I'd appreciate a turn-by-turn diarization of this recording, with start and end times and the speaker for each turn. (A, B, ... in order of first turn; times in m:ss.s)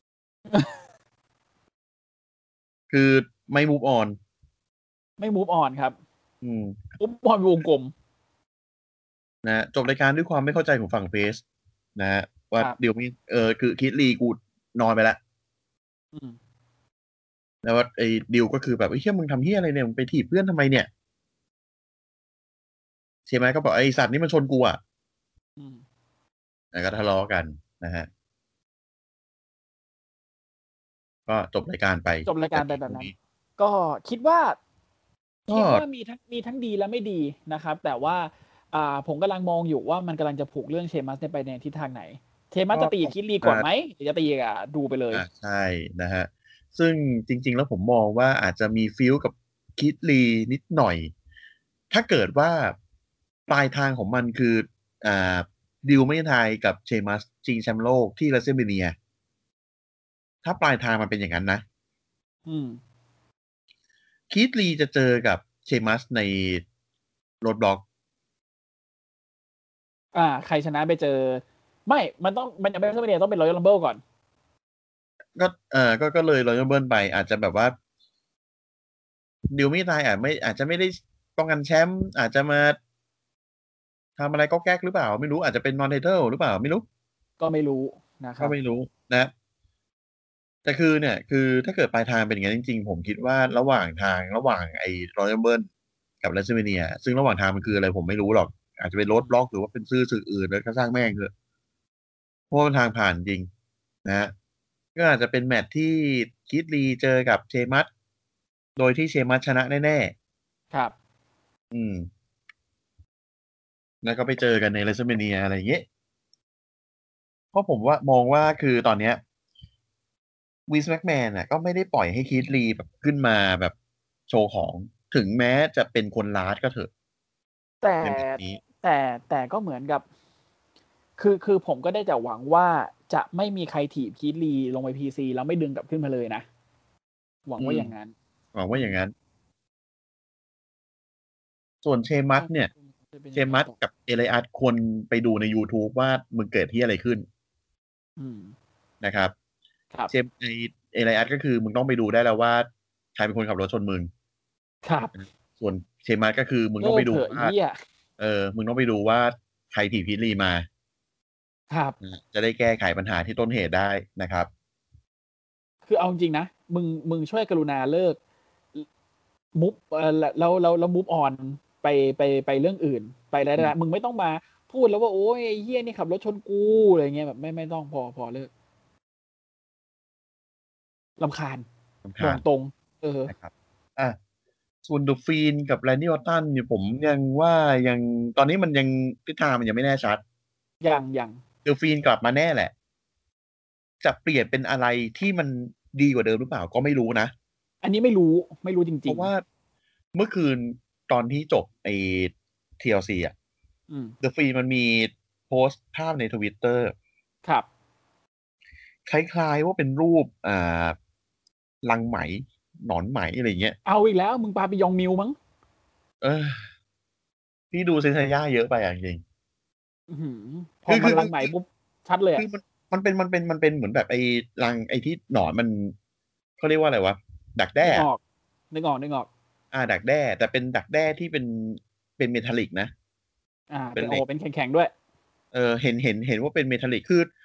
0:00.5-0:00.8 A
0:02.9-0:04.2 B
0:05.2-0:06.0 A
0:06.4-0:06.8 B
0:07.0-0:07.9 A
0:09.4-0:11.4 B
0:12.0-0:15.2 B
0:17.6-0:20.9 B
0:23.3-0:24.8 B
0:25.6-0:25.8 A
0:26.7-0:28.1 B
0:31.3-0:33.1 B
0:32.2-0:34.6 A
0:35.5-0:45.2 A
0:35.5-0:35.8 B
0:42.7-0:43.6 B
0:45.1-0:51.1 B
0:51.9-0:52.8 B
0:53.5-0:58.9 B
1:00.4-1:01.6 B
1:02.4-1:02.8 A
1:04.3-1:06.6 B
1:07.4-1:07.8 B
1:10.1-1:14.0 A
1:15.3-1:17.7 B
1:19.5-1:22.8 B
1:24.2-1:26.8 B
1:27.4-1:28.6 A
1:28.4-1:29.3 B
1:30.6-1:35.7 B
1:36.2-1:41.3 B
1:39.1-1:39.4 A
1:42.5-1:43.5 B
1:44.0-1:44.3 B
1:44.9-1:47.9 B
1:48.8-1:50.1 B
1:51.7-1:52.1 B
1:54.0-1:55.8 B
1:57.5-1:59.2 B
2:00.7-2:03.7 B
2:04.3-2:06.9 B
2:07.8-2:10.0 A
2:08.0-2:08.6 B
2:11.2-2:16.4 A
2:17.4-2:18.1 A
2:17.6-2:17.9 B
2:18.5-2:19.1 B
2:21.8-2:22.7 B
2:22.3-2:23.8 A
2:23.3-2:27.2 B
2:28.2-2:28.5 A
2:29.0-2:29.3 B
2:30.1-2:34.1 B
2:34.8-2:35.1 A
2:35.2-2:37.5 B
2:36.8-2:37.8 A
2:38.2-2:40.7 B
2:42.0-2:44.5 B
2:45.8-2:48.2 A
2:49.5-2:58.5 A
3:01.2-3:01.6 A
3:02.0-3:02.4 B
3:02.2-3:03.3 A
3:03.3-3:04.2 B
3:04.8-3:10.2 B
3:10.8-3:11.4 A
3:11.6-3:12.7 B
3:14.0-3:17.3 B
3:17.8-3:19.3 A
3:19.1-3:19.4 B
3:20.1-3:23.3 B
3:23.9-3:24.1 A
3:24.2-3:26.9 B
3:29.0-3:31.0 B
3:31.8-3:33.8 B
3:33.8-3:35.4 A
3:36.2-3:36.7 B
3:37.7-3:39.2 B
3:40.1-3:42.4 A
3:40.9-3:41.5 B
3:42.4-3:45.9 B
3:46.6-3:48.1 B
3:47.8-3:48.2 A
3:48.7-3:49.3 A
3:49.7-3:52.9 B
3:53.7-3:54.9 A
3:54.0-3:54.2 B
3:55.5-3:57.3 B